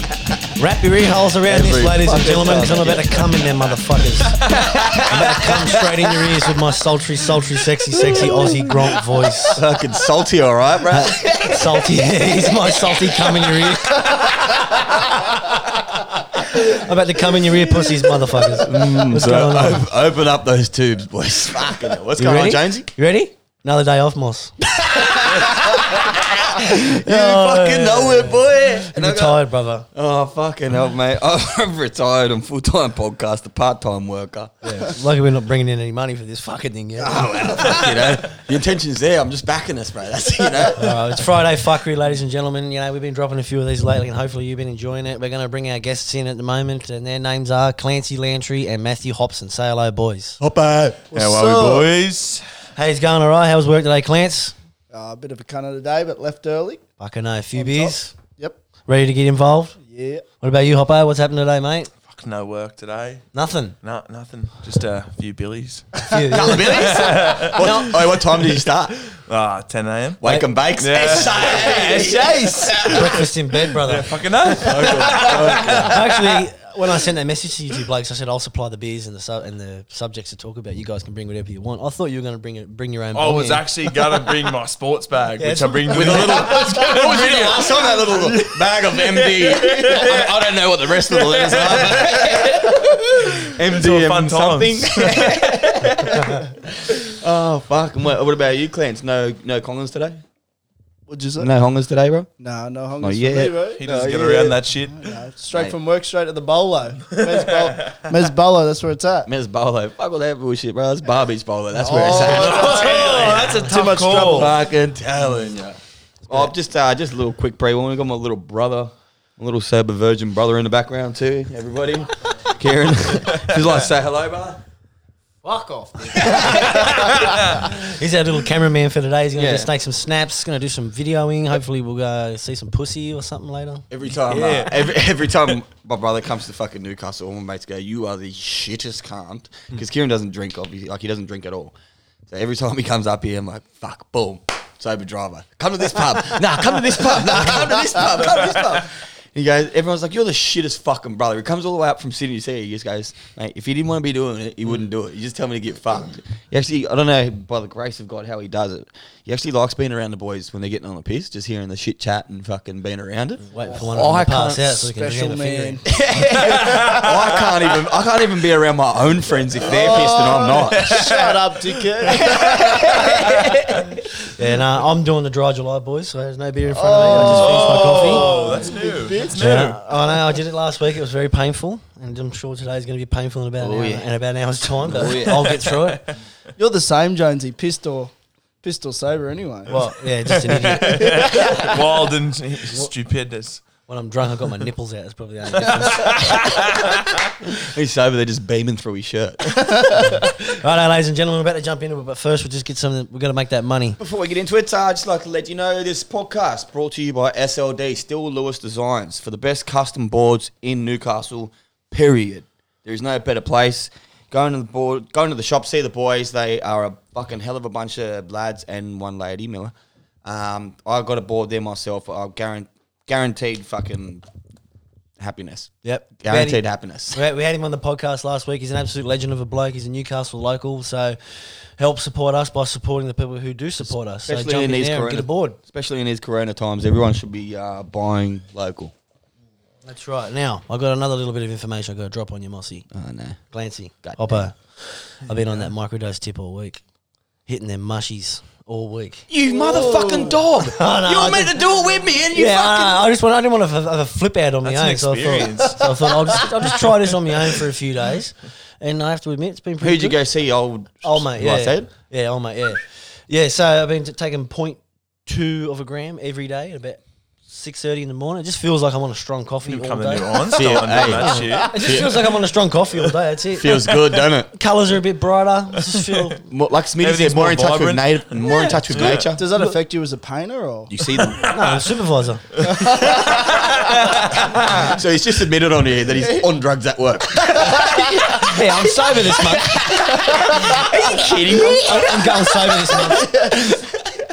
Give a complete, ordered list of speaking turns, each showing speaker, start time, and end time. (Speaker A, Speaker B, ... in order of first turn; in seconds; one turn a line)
Speaker A: 0.6-4.4
Speaker B: 1.4-3.5
Speaker B: 4.4-6.4
Speaker A: 5.1-9.6
Speaker B: 9.5-11.8
Speaker A: 10.9-14.3
Speaker B: 12.7-14.8
Speaker A: 16.4-19.9
Speaker B: 18.5-22.9
Speaker A: 22.2-25.9
Speaker B: 24.8-34.9
Speaker A: 26.5-29.9
Speaker A: 34.6-37.9
Speaker B: 37.0-41.2
Speaker A: 40.8-50.4
Speaker B: 50.4-51.1
Speaker C: 51.1-51.9
Speaker D: 51.1-52.5
Speaker A: 52.8-54.5
Speaker C: 54.9-56.8
Speaker A: 57.0-58.1
Speaker C: 57.5-58.6
Speaker A: 58.9-59.8
Speaker C: 59.8-60.2
Speaker A: 60.4-61.9
Speaker D: 62.1-63.3
Speaker A: 63.3-63.8
Speaker D: 63.8-65.9
Speaker A: 66.1-67.9
Speaker B: 66.3-69.0
Speaker D: 66.6-68.1
Speaker D: 69.1-76.1
Speaker B: 70.2-73.2
Speaker A: 72.8-74.2
Speaker B: 74.6-76.2
Speaker A: 75.5-83.7
Speaker D: 83.1-90.3
Speaker A: 85.4-86.6
Speaker B: 85.9-100.2
Speaker D: 91.0-96.3
Speaker C: 101.1-101.5
Speaker B: 101.4-102.3
Speaker C: 102.4-109.3
Speaker B: 103.0-103.6
Speaker D: 103.8-105.1
Speaker D: 107.1-108.0
Speaker B: 109.3-113.6
Speaker C: 111.8-114.5
Speaker D: 112.1-114.5
Speaker B: 114.2-124.6
Speaker A: 125.5-133.9
Speaker B: 126.1-126.9
Speaker D: 127.0-127.4
Speaker B: 129.3-129.7
Speaker B: 133.9-141.7
Speaker D: 134.3-134.9
Speaker B: 142.3-164.9
Speaker A: 163.5-165.8
Speaker C: 164.8-166.0
Speaker B: 165.9-171.0
Speaker D: 166.3-167.5
Speaker C: 169.6-173.3
Speaker D: 170.7-172.3
Speaker B: 172.0-174.0
Speaker A: 174.4-178.3
Speaker C: 176.7-179.4
Speaker B: 177.0-178.1
Speaker D: 177.2-179.8
Speaker A: 179.4-186.0
Speaker B: 183.6-184.1
Speaker B: 184.7-185.7
Speaker C: 186.6-189.8
Speaker A: 189.7-191.5
Speaker D: 190.5-193.7
Speaker C: 190.7-191.8
Speaker A: 193.9-196.5
Speaker D: 195.7-197.0
Speaker B: 197.4-200.0
Speaker C: 199.8-200.1
Speaker A: 200.0-204.0
Speaker B: 204.0-224.2
Speaker B: 225.2-227.2
Speaker A: 225.8-235.6
Speaker B: 233.8-238.9
Speaker A: 239.8-242.9
Speaker B: 242.9-243.4
Speaker A: 243.5-246.8
Speaker B: 244.0-244.4
Speaker A: 247.5-249.3
Speaker B: 249.3-253.1
Speaker C: 249.4-250.4
Speaker A: 250.6-251.5
Speaker A: 252.3-260.2
Speaker D: 254.6-256.4
Speaker B: 259.8-261.9
Speaker A: 261.0-273.9
Speaker D: 269.6-271.8
Speaker B: 270.5-272.3
Speaker B: 273.5-274.5
Speaker A: 274.5-276.4
Speaker D: 275.9-276.2
Speaker B: 276.5-279.5
Speaker D: 277.0-279.3
Speaker C: 279.3-280.9
Speaker B: 280.9-281.6
Speaker D: 281.2-281.5
Speaker A: 281.5-282.4
Speaker C: 282.6-283.7
Speaker D: 282.7-283.1
Speaker B: 283.0-293.9
Speaker C: 286.1-286.4
Speaker C: 287.6-288.3
Speaker A: 288.4-289.8
Speaker C: 290.1-290.9
Speaker A: 291.7-293.4
Speaker C: 293.1-293.6